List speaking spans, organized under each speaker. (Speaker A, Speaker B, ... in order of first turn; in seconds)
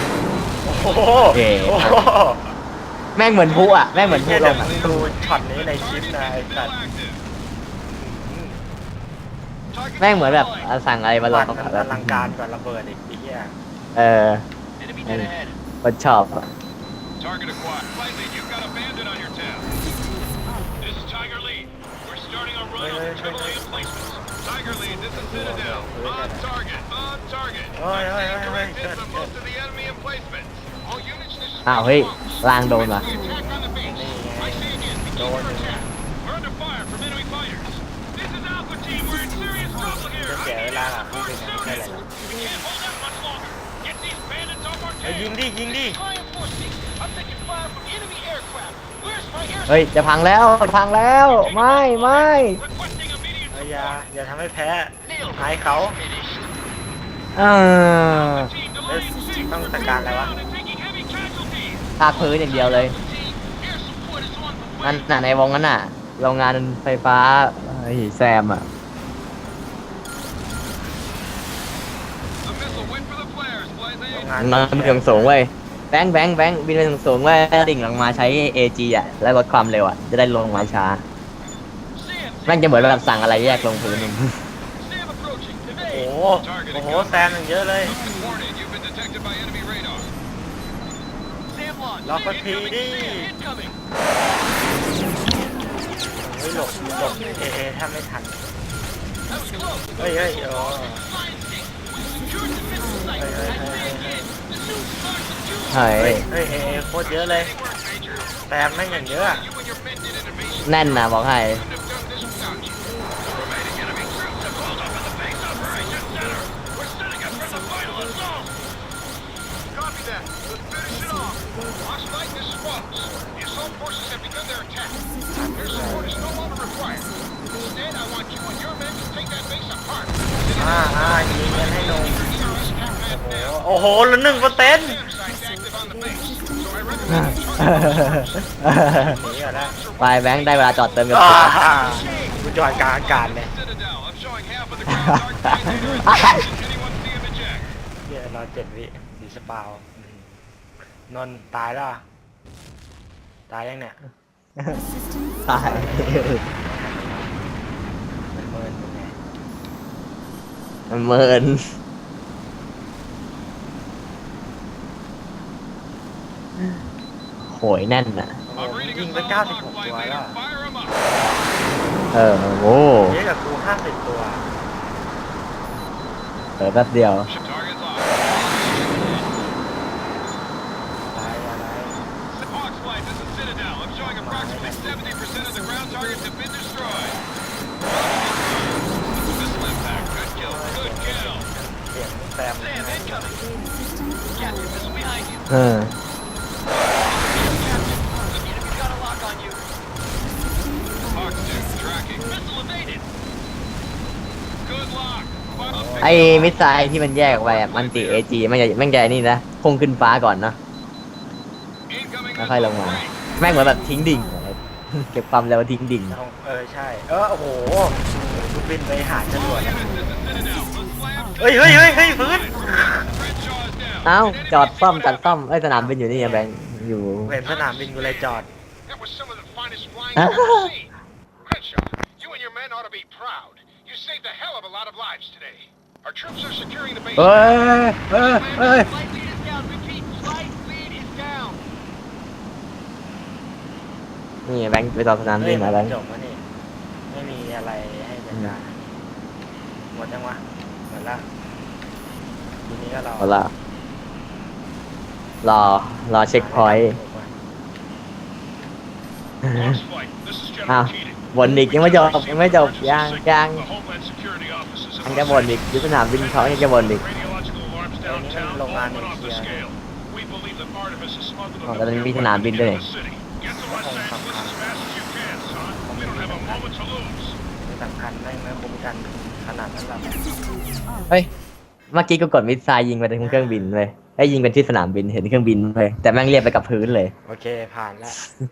Speaker A: 0.6-2.5, 4.0-6.7, 7.9-8.6, 11.3-13.6, 22.8-23.9, 25.1-26.5, 27.8-29.4, 33.8-35.9, 40.1-42.1, 45.0-46.0, 53.5-56.0, 58.8-60.4, 72.6-72.9, 74.1-75.4, 85.8-88.0, 92.0-93.3, 96.2-98.5, 100.0-101.1, 103.1-104.3, 106.0-107.5, 108.5-109.5, 123.0-123.6, 125.3-126.4, 130.5-132.3, 133.0-135.0, 138.9-139.8, 141.1-143.5, 148.0-150.3, 151.1-152.0, 153.5-154.0, 155.5-157.4, 158.3-159.2, 168.5-170.4, 173.1-174.6, 181.1-182.1, 184.0-185.2, 186.8-187.3, 190.3-193.4, 205.5-206.6, 216.1-220.1, 221.4-223.1, 225.7-226.5, 227.2-228.5, 245.4-246.4, 247.1-248.9, 249.9-251.2, 252.6-253.5, 256.3-257.4, 268.0-269.7, 273.6-274.6, 275.8-276.8, 277.6-280.2, 283.2-283.8, 287.2-288.2
Speaker B: 1.3-2.0, 3.1-5.1, 10.0-12.3, 13.9-14.4, 15.1-16.4, 31.6-33.1, 49.7-52.6, 57.4-58.5, 62.0-63.0, 64.8-68.7, 74.4-81.0, 82.5-84.4, 105.7-106.2, 110.6-111.7, 137.1-139.1, 140.0-141.7, 144.9-146.5, 155.5-156.4, 160.9-161.6, 167.4-168.4, 172.1-173.2, 176.6-177.3, 195.5-195.9, 206.0-210.6, 212.4-216.2, 224.0-227.4, 230.2-230.7, 237.2-238.9, 244.4-245.9, 253.2-253.5, 255.4-256.9, 259.4-259.8, 260.7-263.7, 265.0-267.0, 271.6-272.9, 281.9-287.1
Speaker C: 3.6-7.2, 9.7-10.7, 14.8-15.5, 17.2-19.7, 20.8-33.9, 34.5-40.6, 42.2-45.3, 46.0-49.7, 51.5-53.9, 55.1-55.4, 56.0-56.4, 58.2-59.6, 60.3-61.9, 62.4-65.0, 72.5-74.3, 82.0-82.5, 83.5-84.1, 84.8-87.2, 87.9-90.1, 91.7-92.5, 93.1-93.7, 99.3-103.2, 104.7-106.0, 107.1-108.2, 108.9-111.0, 111.6-112.6, 113.4-118.5, 119.8-125.0, 126.1-127.0, 127.7-130.6, 131.8-133.0, 134.5-138.2, 139.7-140.8, 142.0-142.3, 142.9-147.6, 168.6-171.0, 177.3-179.3, 182.3-187.2, 187.9-191.4, 194.4-195.4, 196.7-199.6, 201.1-203.0, 204.6-208.2, 211.9-213.1, 219.3-225.4, 227.4-228.1, 228.9-230.9, 231.4-237.4, 238.2-241.6, 259.5-273.8, 274.6-275.8, 276.4-277.3